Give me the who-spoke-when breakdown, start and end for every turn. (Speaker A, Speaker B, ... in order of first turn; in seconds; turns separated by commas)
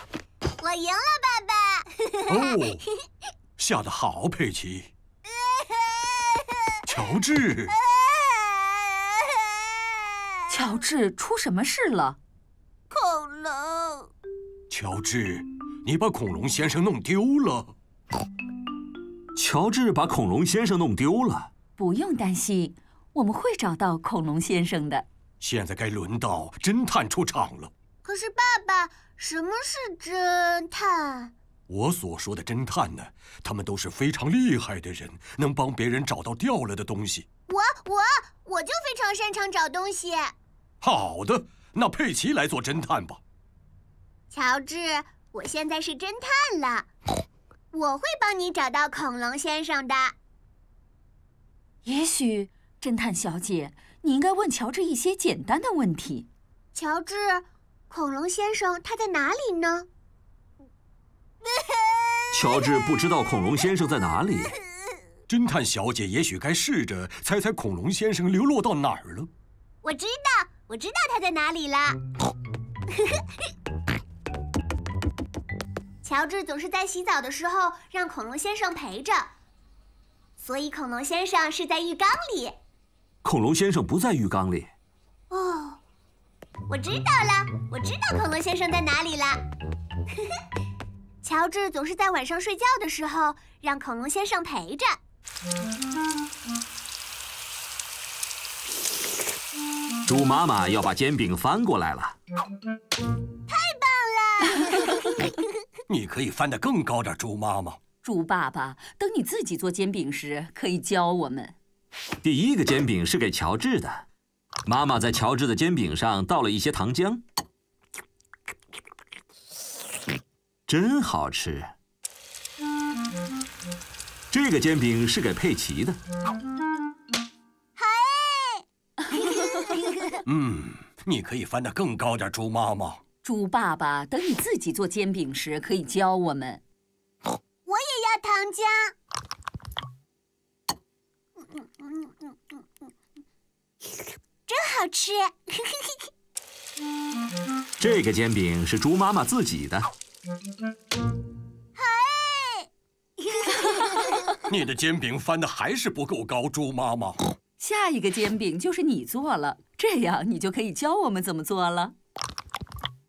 Speaker A: 0.6-2.6, Speaker B: 2.3-2.8, Speaker B: 3.6-4.9, Speaker A: 5.4-6.4, Speaker B: 6.9-7.7, Speaker A: 7.9-8.9, Speaker C: 10.5-12.2, Speaker B: 14.7-17.7, Speaker D: 19.4-21.5, Speaker C: 21.8-25.1, Speaker B: 25.4-27.7, Speaker A: 28.1-31.3, Speaker B: 31.7-37.2, Speaker A: 37.5-40.3, Speaker B: 40.8-43.2, Speaker A: 44.3-46.9, Speaker A: 47.7-50.1, Speaker C: 51.9-56.3, Speaker A: 56.7-59.9, Speaker D: 62.3-64.5, Speaker B: 65.3-69.3, Speaker A: 69.8-72.0, Speaker A: 72.9-73.3, Speaker A: 76.0-79.3, Speaker A: 80.4-82.6, Speaker D: 83.2-84.7, Speaker A: 85.3-85.8, Speaker A: 86.7-89.4, Speaker A: 91.2-95.0, Speaker D: 100.0-102.2, Speaker A: 103.5-105.4, Speaker B: 105.9-107.8, Speaker C: 108.0-111.5, Speaker D: 112.2-114.0, Speaker D: 114.7-117.2, Speaker D: 120.7-121.7, Speaker D: 124.3-126.0, Speaker A: 127.8-130.2, Speaker B: 130.3-133.0, Speaker C: 133.2-136.6, Speaker A: 137.7-138.9, Speaker A: 141.4-142.9, Speaker A: 144.5-146.1, Speaker D: 147.8-149.9, Speaker A: 151.8-152.7, Speaker A: 153.2-154.4, Speaker B: 154.5-157.2, Speaker C: 157.6-161.9